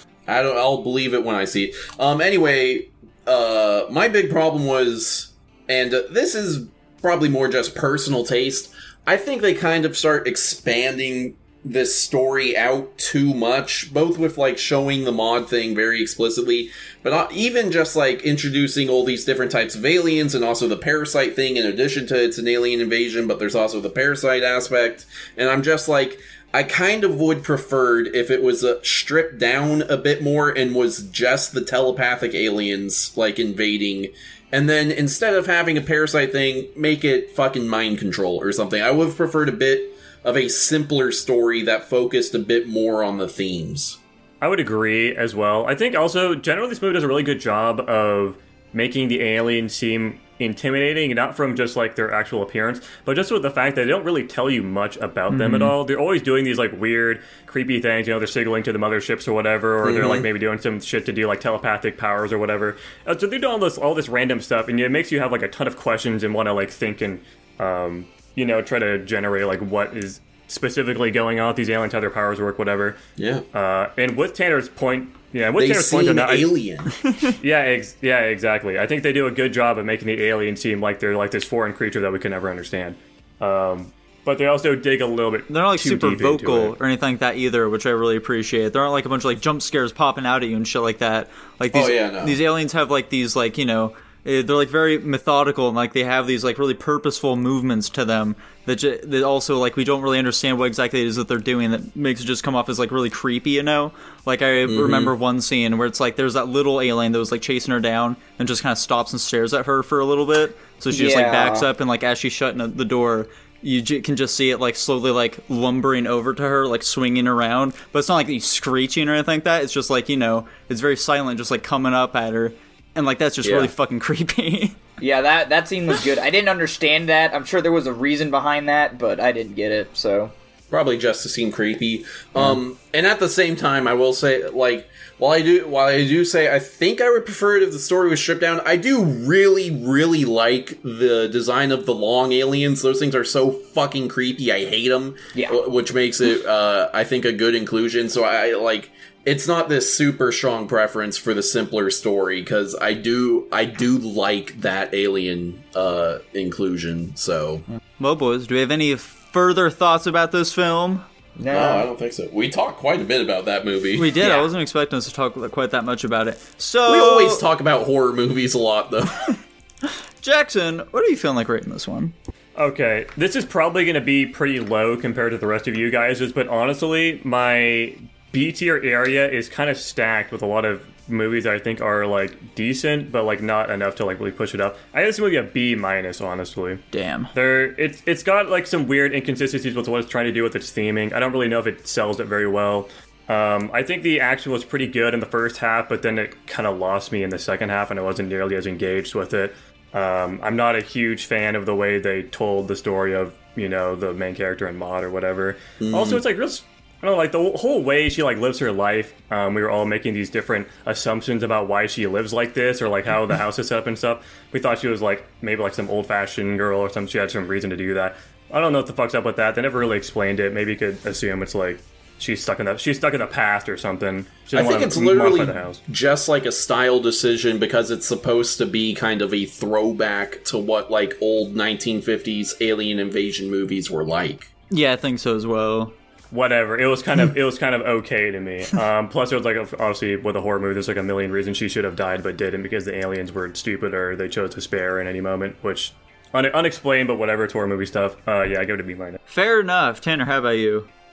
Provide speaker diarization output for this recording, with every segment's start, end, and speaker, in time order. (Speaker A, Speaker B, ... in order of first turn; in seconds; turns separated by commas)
Speaker A: 0.3-44.0, Speaker B: 44.4-73.0, Speaker C: 55.3-55.8, Speaker A: 59.8-60.3, Speaker A: 73.2-73.5, Speaker B: 73.5-76.5, Speaker A: 75.6-77.0, Speaker C: 77.0-77.4, Speaker B: 77.4-86.8, Speaker C: 85.5-124.8, Speaker A: 91.7-92.4, Speaker A: 104.7-105.1, Speaker D: 110.9-111.7, Speaker A: 123.4-123.7, Speaker D: 125.0-130.3, Speaker A: 130.7-157.7, Speaker C: 158.0-161.0, Speaker D: 161.4-161.9, Speaker A: 161.5-164.2, Speaker C: 163.9-167.5, Speaker D: 164.2-164.5, Speaker A: 166.9-169.3, Speaker C: 169.9-172.2, Speaker B: 172.6-186.8, Speaker C: 186.9-187.3, Speaker B: 187.3-225.8, Speaker A: 205.8-206.2, Speaker A: 224.6-234.5, Speaker C: 234.7-235.9, Speaker B: 236.3-249.2, Speaker C: 249.3-250.9